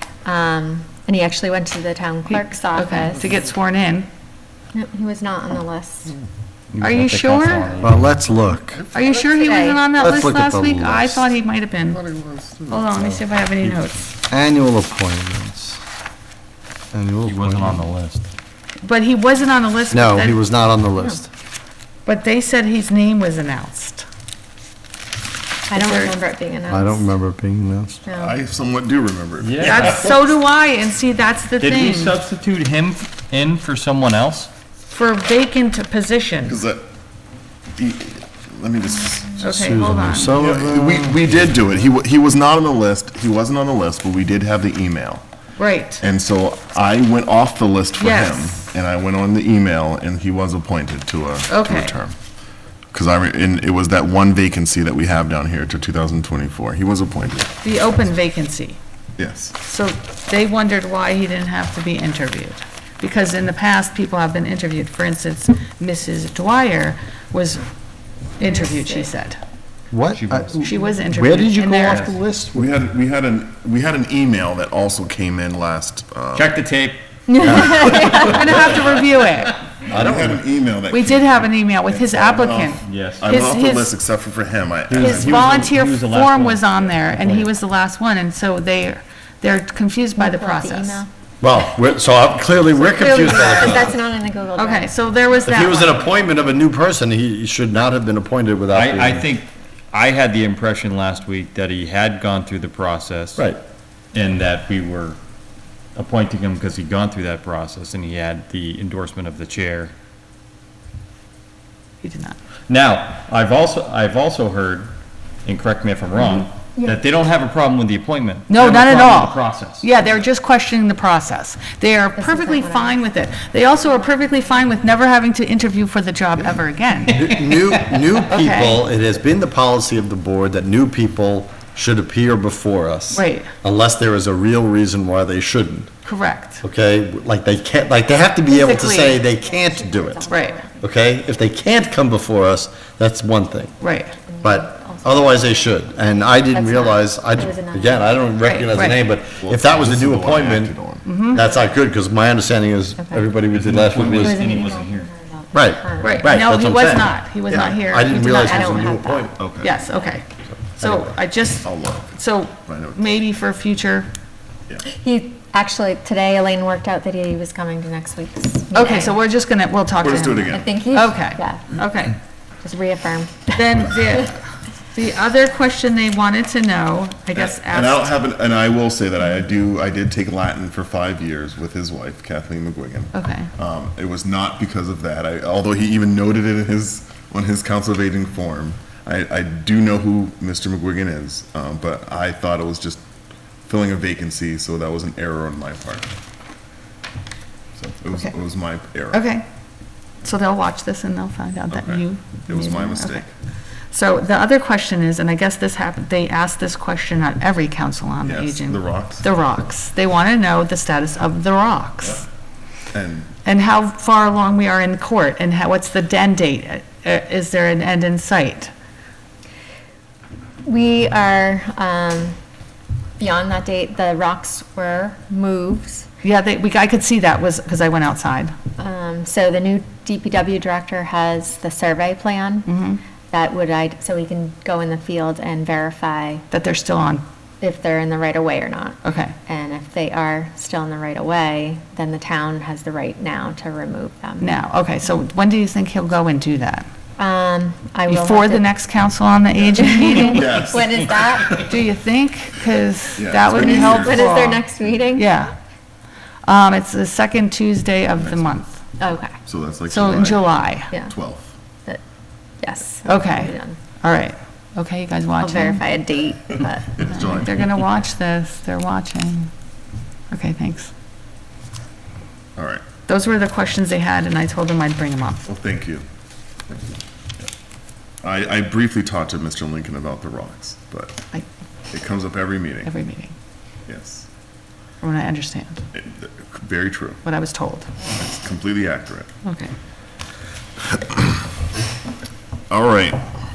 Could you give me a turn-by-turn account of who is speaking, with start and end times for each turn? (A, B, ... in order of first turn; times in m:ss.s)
0:00.2-0:03.4 A
0:02.3-0:04.1 B
0:04.7-0:06.1 A
0:06.7-0:08.0 C
0:06.8-0:07.7 B
0:07.8-0:08.8 D
0:08.9-0:12.0 B
0:09.0-0:10.1 A
0:10.0-0:11.2 D
0:11.9-0:13.0 E
0:12.7-0:14.1 B
0:14.3-0:15.8 D
0:16.9-0:17.9 D
0:17.2-0:18.3 C
0:18.8-0:20.4 B
0:19.9-0:21.3 D
0:22.0-0:24.0 B
0:25.7-0:27.2 A
0:25.7-0:26.2 B
0:26.7-0:28.0 D
0:28.0-0:28.4 A
0:28.1-0:30.2 E
0:29.4-0:30.2 C
0:29.6-0:32.2 B
0:31.6-0:34.5 C
0:34.9-0:36.6 B
0:36.4-0:36.8 E
0:37.8-0:45.2 E
0:39.4-0:40.4 B
0:39.5-0:41.4 D
0:45.6-0:46.0 B
0:46.0-0:52.2 E
0:48.0-0:48.7 B
0:51.5-0:52.0 B
0:52.9-0:57.6 E
0:57.6-0:58.8 B
0:59.2-0:59.6 E
0:59.6-1:07.6 B
1:08.4-1:09.4 B
1:08.4-1:09.1 A
1:09.9-1:12.7 D
1:10.1-1:10.7 C
1:10.6-1:12.1 B
1:11.8-1:12.2 C
1:12.5-1:16.5 E
1:16.3-1:19.5 C
1:17.3-1:18.3 A
1:17.4-1:18.2 D
1:17.7-1:19.0 E
1:18.1-1:19.6 B
1:19.9-1:25.8 E
1:19.9-1:20.4 D
1:20.9-1:24.0 B
1:22.8-1:23.3 C
1:24.9-1:27.5 C
1:25.0-1:31.0 B
1:30.2-1:31.1 A
1:31.4-1:33.9 D
1:32.8-1:34.9 A
1:32.9-1:33.9 B
1:34.6-1:36.1 B
1:35.4-1:39.3 D
1:38.7-1:43.5 C
1:44.1-1:45.2 C
1:46.0-1:49.9 C
1:52.0-1:52.4 B
1:52.7-1:54.9 C
1:55.4-1:59.9 C
1:56.8-1:57.1 A
1:58.5-2:07.2 B
2:02.2-2:03.0 A
2:07.1-2:15.9 D
2:07.2-2:08.2 C
2:08.3-2:08.8 B
2:13.1-2:13.5 B
2:16.0-2:16.6 B
2:16.6-2:23.7 D
2:18.4-2:20.8 A
2:18.5-2:19.2 B
2:20.3-2:20.6 B
2:23.8-2:24.2 B
2:24.1-2:28.3 A
2:24.4-2:30.8 D
2:28.4-2:29.1 B
2:29.2-2:31.1 E
2:31.0-2:31.5 B
2:31.3-2:34.4 D
2:33.0-2:33.3 A
2:33.5-2:35.1 C
2:33.9-2:36.2 A
2:35.5-2:39.4 D
2:36.0-2:39.1 B
2:36.2-2:36.9 C
2:38.1-2:39.3 A
2:39.2-2:39.7 E
2:39.6-2:40.2 B
2:40.8-2:44.1 B
2:40.8-2:41.1 D
2:41.6-2:43.0 E
2:44.8-2:49.2 A
2:48.7-2:52.2 B
2:50.0-2:50.8 E
2:50.5-2:51.7 A
2:52.6-2:54.3 A
2:53.5-2:54.4 B
2:54.9-2:58.2 B
2:57.3-3:13.0 E
3:03.1-3:03.5 B
3:13.7-3:16.1 E
3:17.8-3:19.2 E
3:19.1-3:19.4 B
3:20.2-3:23.3 B
3:21.7-3:23.3 E
3:23.9-3:32.2 B
3:28.2-3:29.3 E
3:32.9-3:33.3 E
3:33.4-3:38.7 B
3:40.6-3:42.4 A
3:43.2-3:46.1 A
3:46.2-3:48.5 B
3:48.8-3:52.7 A
3:52.7-3:53.0 B
3:53.3-3:56.4 A
3:56.5-3:57.2 B
3:57.6-4:04.5 A
3:59.0-3:59.4 B
4:04.4-4:06.9 B
4:07.2-4:08.7 A
4:08.1-4:10.8 B
4:09.5-4:11.8 E
4:09.8-4:11.7 A
4:11.7-4:15.5 B
4:13.2-4:14.3 E
4:13.4-4:15.3 A
4:16.4-4:18.9 B
4:18.2-4:18.6 E
4:19.0-4:19.4 A
4:19.4-4:21.6 E
4:19.9-4:20.9 B
4:22.6-4:23.8 A
4:23.0-4:25.8 B
4:25.4-4:27.4 A
4:27.0-4:29.5 B
4:27.0-4:27.7 E
4:30.3-4:30.9 B
4:32.6-4:32.9 E
4:33.0-4:35.5 B
4:35.4-4:36.0 E
4:38.2-4:41.3 E
4:41.9-4:42.9 E
4:42.8-4:43.4 B
4:43.9-4:44.2 E
4:45.0-4:45.8 B
4:45.9-4:47.2 E
4:47.2-4:47.9 B
4:48.1-4:49.3 E
4:49.4-4:49.7 B
4:50.9-4:51.4 E
4:52.7-4:53.2 E